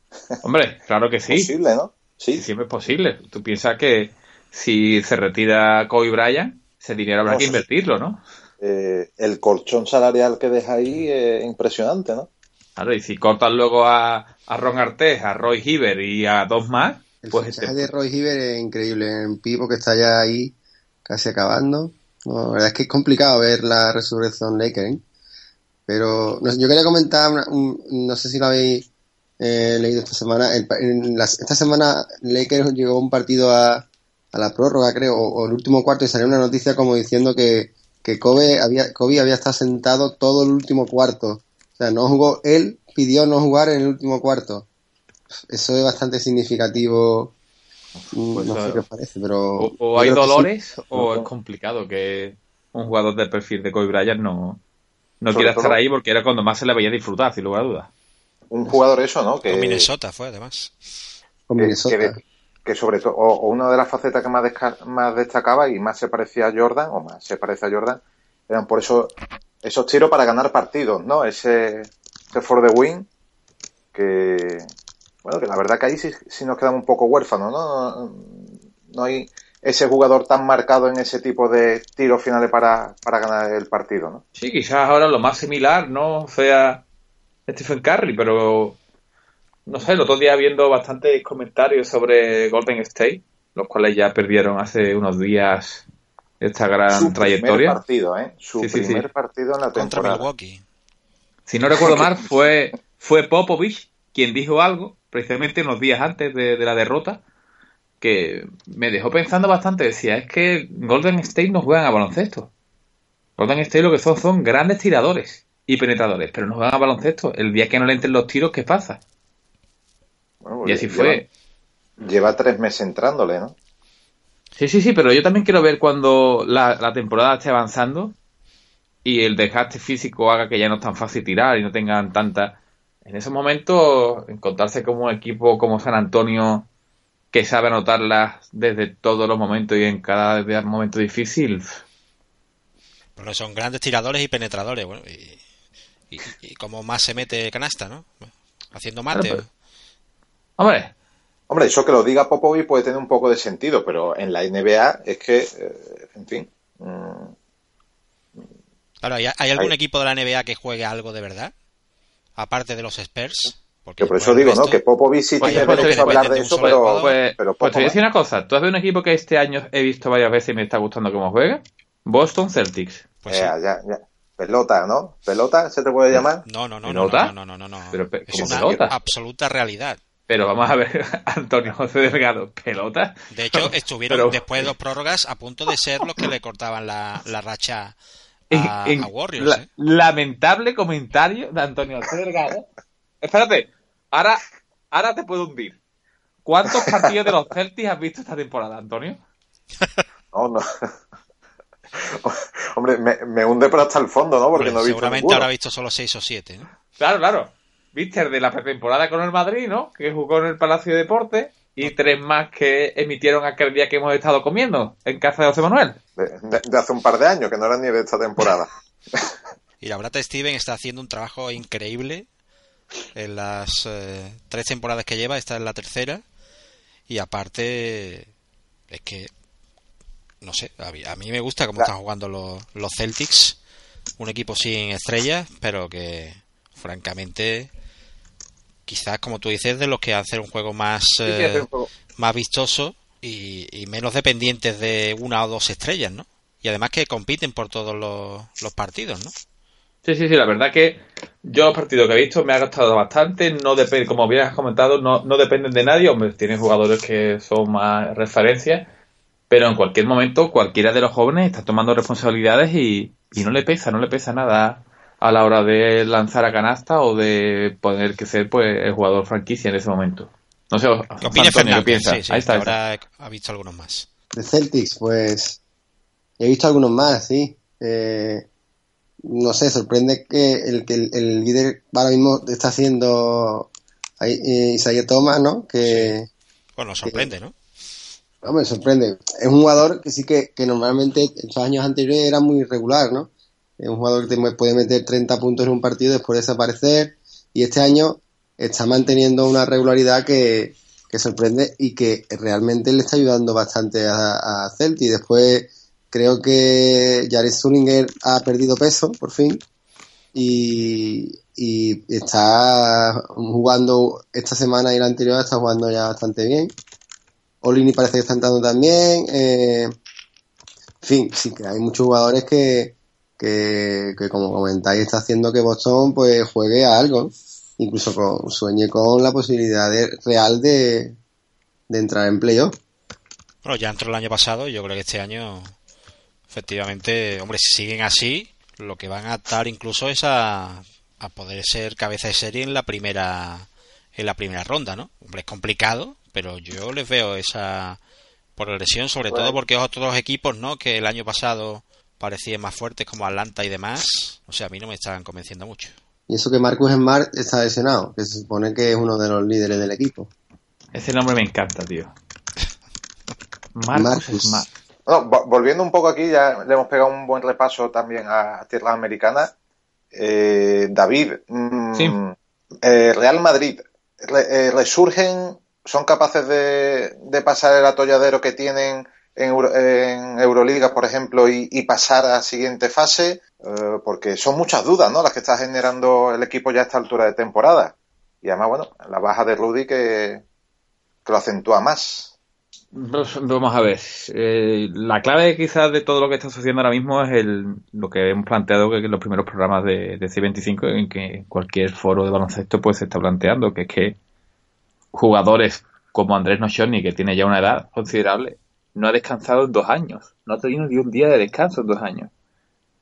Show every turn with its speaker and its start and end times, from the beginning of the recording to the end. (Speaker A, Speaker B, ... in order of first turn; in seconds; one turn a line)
Speaker A: 0.4-1.5
Speaker B: 1.3-2.4
Speaker A: 2.3-8.2
Speaker B: 7.2-7.6
Speaker B: 8.6-12.3
Speaker A: 12.8-17.9
Speaker C: 17.2-25.0
Speaker C: 25.9-28.9
Speaker C: 29.4-44.6
Speaker C: 45.4-47.3
Speaker A: 48.0-48.8
Speaker C: 48.1-50.5
Speaker A: 49.6-54.6
Speaker B: 51.0-51.3
Speaker A: 55.2-57.9
Speaker B: 55.3-55.8
Speaker B: 58.5-59.9
Speaker D: 59.5-60.7
Speaker C: 61.5-62.2
Speaker B: 61.6-73.1
Speaker B: 73.9-74.7
Speaker B: 75.2-84.2
Speaker A: 84.3-86.8
Speaker A: 87.5-88.8
Speaker A: 89.7-95.8
Speaker A: 96.4-97.8
Speaker B: 96.9-100.2
Speaker A: 98.6-99.1
Speaker D: 99.7-100.6
Speaker A: 101.5-107.2
Speaker A: 108.0-112.5
Speaker A: 113.4-119.0
Speaker B: 120.4-121.2
Speaker A: 120.6-121.3
Speaker B: 122.0-123.5
Speaker A: 124.5-128.1
Speaker A: 129.0-136.7
Speaker A: 137.3-141.8
Speaker D: 143.2-145.4
Speaker D: 146.1-148.1
Speaker D: 148.7-149.5
Speaker A: 149.1-149.4
Speaker A: 150.6-150.9
Speaker B: 151.5-157.3
Speaker D: 159.0-161.5
Speaker D: 162.4-164.8
Speaker B: 164.0-168.0
Speaker D: 165.4-167.2
Speaker A: 165.4-173.0
Speaker D: 173.2-173.5
Speaker B: 173.3-176.4
Speaker D: 176.4-180.0
Speaker A: 176.8-177.3
Speaker A: 177.9-178.9
Speaker B: 178.3-178.9
Speaker A: 180.3-184.7
Speaker D: 183.3-187.9
Speaker D: 188.5-189.7
Speaker A: 188.5-192.7
Speaker A: 193.2-195.8
Speaker A: 196.4-199.2
Speaker B: 200.3-200.6
Speaker B: 202.0-205.5
Speaker D: 204.5-206.7
Speaker A: 207.0-216.0
Speaker B: 216.2-219.3
Speaker D: 219.8-222.2
Speaker D: 223.1-226.2
Speaker D: 227.1-228.3
Speaker D: 228.9-229.3
Speaker D: 230.4-233.6
Speaker D: 234.2-237.7
Speaker D: 238.9-241.7
Speaker A: 241.2-241.9
Speaker D: 242.2-249.3
Speaker A: 250.0-258.9
Speaker A: 259.5-272.8
Speaker D: 271.2-274.1
Speaker C: 274.3-275.6
Speaker C: 276.4-278.4
Speaker C: 279.2-286.3
Speaker D: 285.8-286.1
Speaker D: 286.8-287.5
Speaker C: 287.0-287.3
Speaker C: 288.4-293.3
Speaker C: 293.8-309.6
Speaker C: 310.3-316.7
Speaker C: 317.6-319.9
Speaker C: 321.0-331.1
Speaker C: 331.9-332.7
Speaker D: 333.6-335.7
Speaker D: 336.5-348.0
Speaker D: 348.6-355.9
Speaker B: 349.3-349.6
Speaker C: 356.3-360.3
Speaker A: 360.9-362.1
Speaker A: 363.7-364.7
Speaker C: 363.9-364.6
Speaker B: 365.1-369.5
Speaker B: 370.1-390.4
Speaker B: 391.2-392.3
Speaker A: 392.9-404.2
Speaker A: 405.1-412.3